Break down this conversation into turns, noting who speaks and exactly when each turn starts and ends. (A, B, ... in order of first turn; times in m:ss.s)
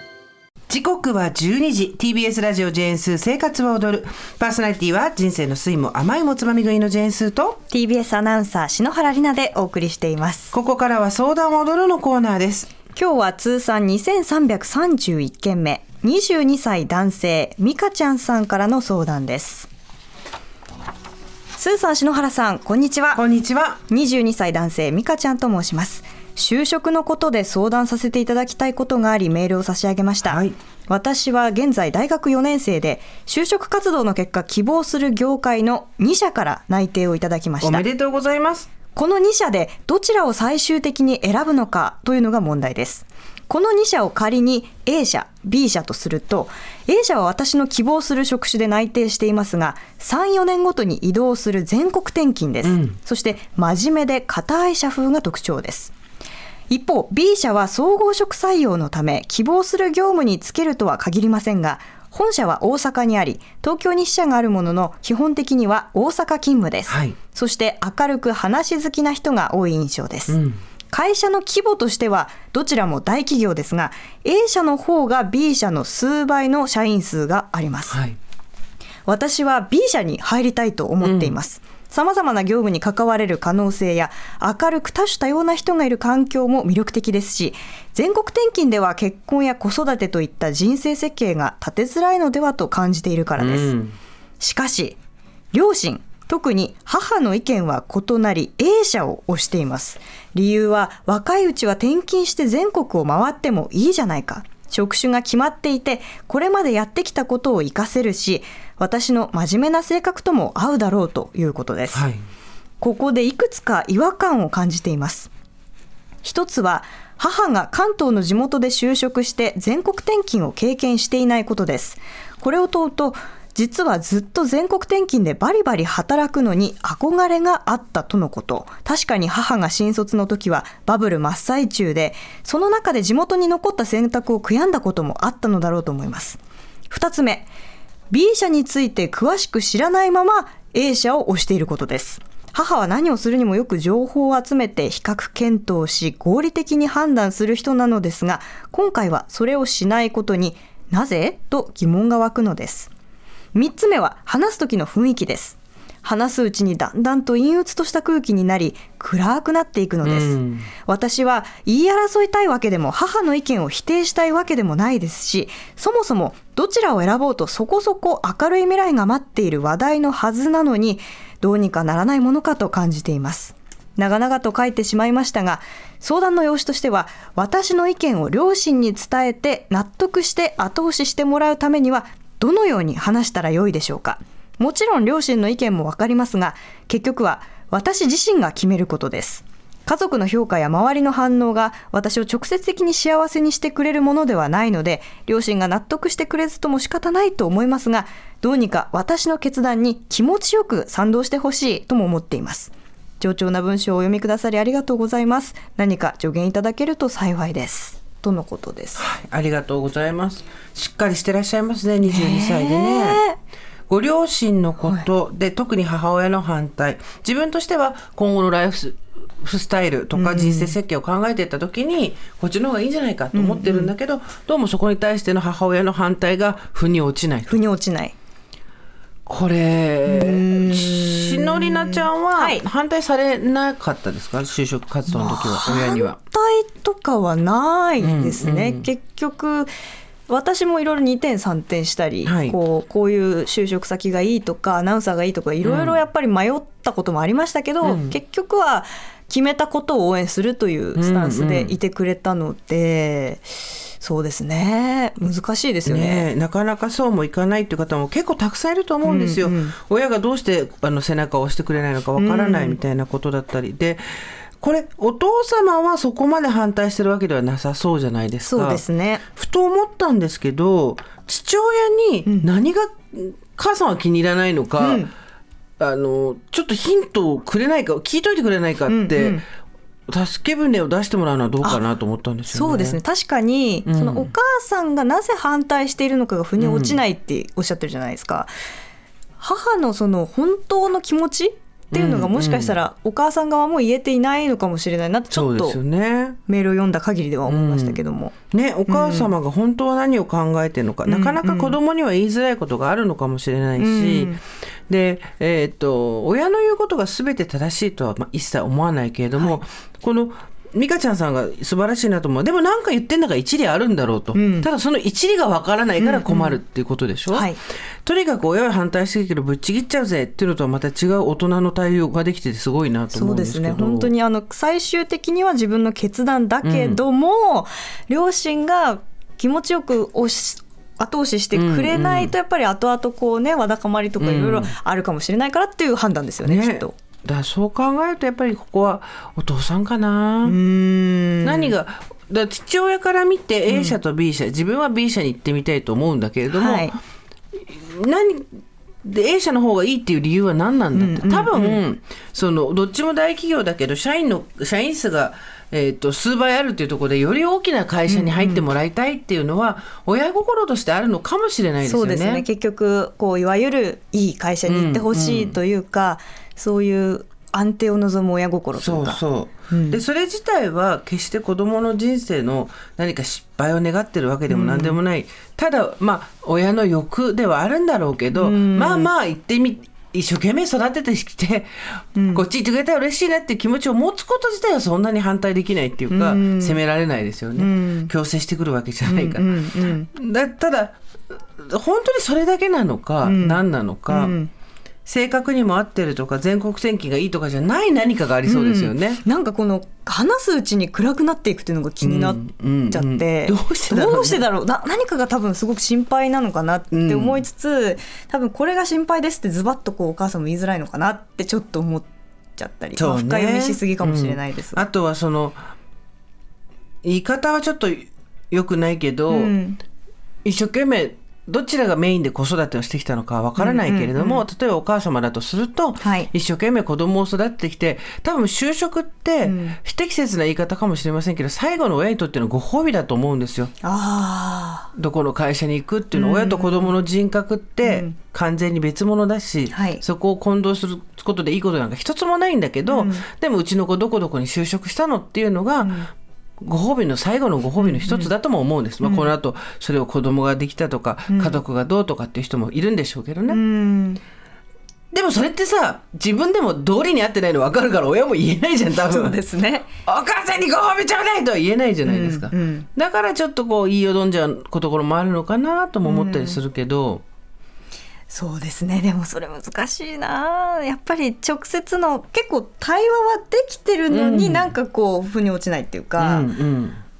0:00.7-0:07.6 A
0:07.7-0:10.5 B
0:10.5-0:12.7 A
0:12.9-0:19.7 B
0:21.6-0:23.2 B
0:23.1-0:23.8 A
0:23.9-0:37.8 B
0:30.2-0:30.6 A
0:37.6-0:38.7 A
0:38.9-0:55.9 B
0:52.6-0:53.0 A
0:56.7-1:10.4 B
1:06.9-1:07.2 A
1:10.3-1:10.6 A
1:10.9-1:18.0 B
1:17.9-1:18.2 A
1:19.0-1:33.7 B
1:21.0-1:21.4 A
1:33.4-1:34.0 A
1:34.4-1:35.0 B
1:35.5-1:52.1 B
1:51.9-1:52.2 A
1:52.8-1:55.3 B
1:56.2-2:16.4 B
2:16.9-2:17.5 B
2:18.1-2:32.9 B
2:33.5-3:29.0 B
2:40.0-2:40.7 A
3:29.0-3:33.2 A
3:32.0-3:33.4 B
3:33.9-3:47.6 A
3:40.1-3:40.7 B
3:43.3-3:43.9 B
3:47.5-3:48.1 B
3:49.2-3:56.2 A
3:50.1-3:52.6 B
3:55.1-3:59.7 B
3:58.0-3:58.9 A
4:00.3-4:16.3 B
4:02.2-4:02.6 A
4:05.6-4:06.0 A
4:07.8-4:08.1 A
4:11.0-4:11.8 A
4:15.8-4:28.8 A
4:19.0-4:19.7 B
4:22.2-4:22.8 B
4:28.4-4:29.2 B
4:29.3-4:35.1 A
4:34.8-4:35.1 B
4:35.8-4:39.4 A
4:38.9-4:39.4 B
4:40.1-4:43.0 A
4:42.5-4:48.5 B
4:43.8-4:44.3 A
4:46.6-4:47.0 A
4:49.4-4:55.8 B
4:51.9-4:52.8 A
4:55.3-4:56.4 A
4:56.4-4:58.3 B
4:57.5-4:58.0 A
4:58.5-5:17.5 A
4:58.9-4:59.3 B
5:01.0-5:01.8 B
5:03.8-5:04.4 B
5:14.3-5:14.7 B
5:16.0-5:16.6 B
5:17.3-5:17.6 B
5:18.0-5:24.1 A
5:23.1-5:37.0 B
5:26.6-5:27.0 A
5:31.5-5:32.3 A
5:34.2-5:34.7 A
5:36.4-5:40.6 A
5:40.4-5:41.7 B
5:41.4-5:47.0 A
5:43.7-5:43.9 B
5:46.5-5:47.0 B
5:47.6-6:02.4 A
5:50.9-5:51.8 B
5:58.1-5:58.6 B
6:01.8-6:10.0 B
6:04.6-6:05.6 A
6:08.8-6:34.4 A
6:14.5-6:15.0 B
6:18.3-6:19.1 B
6:22.2-6:22.4 B
6:26.1-6:26.8 B
6:27.6-6:28.1 B
6:29.0-6:30.1 B
6:33.2-6:34.5 B
6:35.0-6:39.2 A
6:38.4-6:54.8 B
6:42.0-6:44.4 A
6:46.9-6:47.4 A
6:53.0-6:55.6 A
6:57.0-6:59.5 A
6:59.3-6:59.8 B
7:00.4-7:13.7 A
7:03.6-7:04.4 B
7:06.0-7:06.3 B
7:09.4-7:09.8 B
7:13.8-7:14.9 B
7:14.9-7:26.0 A
7:16.1-7:16.9 B
7:17.8-7:18.1 B
7:19.7-7:20.0 B
7:22.9-7:23.2 B
7:25.8-7:26.1 B
7:26.6-7:33.6 A
7:27.8-7:28.3 B
7:29.0-7:29.3 B
7:31.3-7:31.6 B
7:33.5-7:34.2 B
7:35.1-7:39.4 A
7:39.0-7:39.9 B
7:40.0-7:47.2 A
7:42.0-7:42.9 B
7:46.0-7:46.6 B
7:48.3-7:56.5 B
7:54.1-7:54.7 A
7:56.2-7:57.0 A